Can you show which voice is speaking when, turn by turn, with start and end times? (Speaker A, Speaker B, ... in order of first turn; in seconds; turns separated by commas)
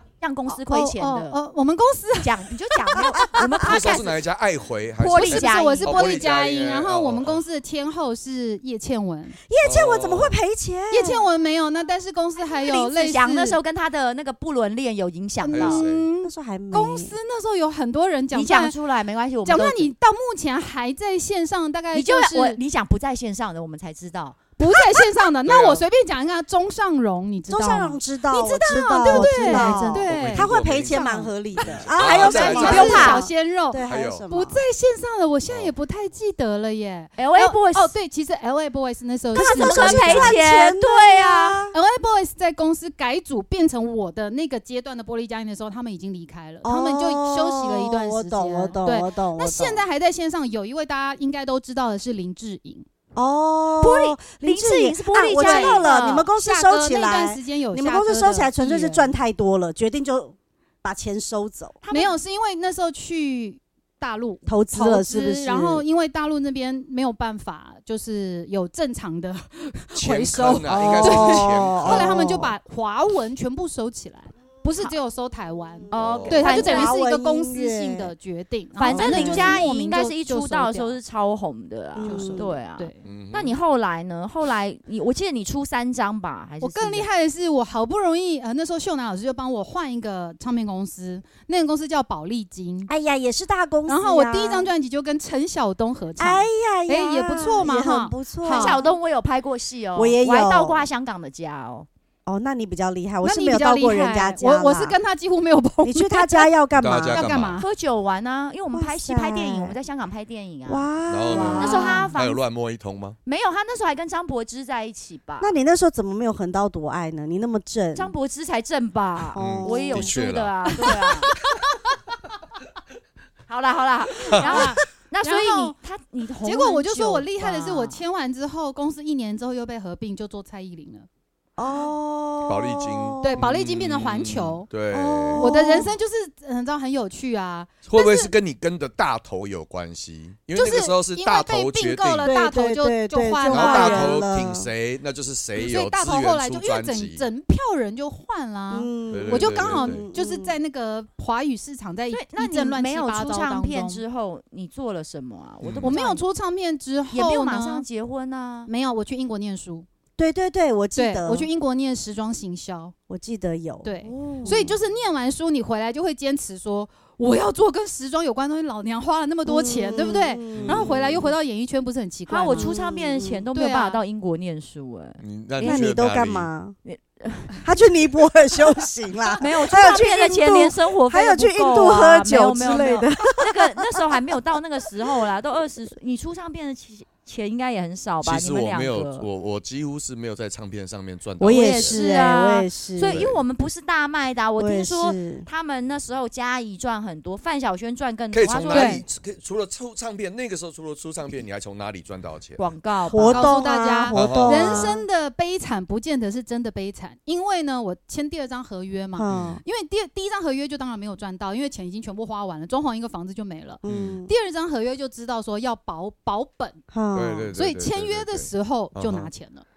Speaker A: 0.2-1.4, Speaker B: 0.5-3.4, Speaker A: 2.2-4.2, Speaker C: 3.2-3.7, Speaker D: 3.6-7.4, Speaker A: 5.0-6.0, Speaker B: 5.1-9.4, Speaker C: 9.5-11.3, Speaker D: 9.6-10.4, Speaker B: 10.9-13.6, Speaker A: 12.4-15.8, Speaker B: 15.4-18.8, Speaker D: 15.5-16.1, Speaker C: 16.2-17.1, Speaker A: 18.3-19.9, Speaker B: 19.4-22.6, Speaker A: 21.9-24.4, Speaker B: 24.6-40.3, Speaker D: 25.4-25.8, Speaker C: 27.5-34.6, Speaker A: 29.0-30.1, Speaker D: 30.1-31.0, Speaker D: 31.5-33.2, Speaker A: 32.3-33.2, Speaker D: 33.8-34.2, Speaker A: 37.2-37.9, Speaker C: 39.3-41.7, Speaker A: 39.4-41.6, Speaker B: 41.7-52.9, Speaker C: 46.6-49.8, Speaker C: 53.1-61.8, Speaker A: 53.8-56.3, Speaker B: 55.3-59.1, Speaker A: 61.8-62.1, Speaker B: 61.9-81.0, Speaker C: 64.5-65.8, Speaker D: 70.0-72.4, Speaker C: 70.7-72.5, Speaker C: 75.8-78.1, Speaker A: 75.9-76.9, Speaker D: 75.9-76.6, Speaker A: 78.8-87.1, Speaker C: 78.9-79.7, Speaker C: 82.0-82.5, Speaker B: 82.0-83.0, Speaker D: 83.0-83.5, Speaker B: 86.6-92.9, Speaker C: 92.9-94.7, Speaker B: 93.9-98.9, Speaker C: 96.2-98.8, Speaker A: 98.5-101.9, Speaker C: 100.0-100.8, Speaker C: 102.2-105.0, Speaker B: 103.2-106.5, Speaker C: 105.8-107.3, Speaker D: 106.8-107.6, Speaker B: 107.0-107.7, Speaker A: 107.5-112.4, Speaker C: 108.7-109.8, Speaker C: 110.7-112.1, Speaker D: 111.1-113.2, Speaker B: 111.3-112.1, Speaker A: 113.2-115.5, Speaker C: 115.4-118.1, Speaker A: 118.0-121.3, Speaker C: 119.3-120.2, Speaker D: 119.4-120.5, Speaker B: 120.8-121.7, Speaker A: 123.5-128.0, Speaker D: 124.3-124.7, Speaker B: 124.3-125.7, Speaker B: 126.4-131.1, Speaker C: 131.6-133.5, Speaker D: 132.4-135.5, Speaker B: 133.2-134.7, Speaker C: 134.9-135.9, Speaker B: 135.3-138.3, Speaker D: 137.9-142.3, Speaker B: 140.5-144.2, Speaker C: 142.2-144.7, Speaker D: 143.5-147.2, Speaker B: 145.5-154.0, Speaker C: 148.7-150.6, Speaker D: 149.1-150.1, Speaker A: 152.1-156.2, Speaker D: 155.6-155.9, Speaker B: 155.8-157.8, Speaker A: 157.1-158.7, Speaker B: 158.7-159.8, Speaker C: 160.2-161.5, Speaker B: 160.9-162.9, Speaker C: 163.1-164.8, Speaker B: 163.8-172.7, Speaker C: 169.4-170.9, Speaker D: 170.5-171.3, Speaker A: 172.3-176.0, Speaker C: 172.5-173.4, Speaker B: 173.5-174.0, Speaker D: 175.2-176.5, Speaker C: 175.6-176.8, Speaker A: 176.8-177.6, Speaker C: 177.6-184.2, Speaker A: 179.4-189.3, Speaker D: 188.2-192.0, Speaker C: 191.4-193.2, Speaker A: 191.4-199.0, Speaker D: 193.1-193.4, Speaker C: 194.6-195.4, Speaker D: 198.3-202.6, Speaker B: 198.7-199.0, Speaker A: 202.6-203.5, Speaker C: 203.0-205.0, Speaker B: 203.2-216.8, Speaker D: 204.1-205.0, Speaker C: 209.1-209.6, Speaker D: 209.3-209.6, Speaker C: 213.8-214.3, Speaker D: 213.9-214.2, Speaker C: 216.9-217.5, Speaker D: 217.1-219.3, Speaker B: 217.5-219.6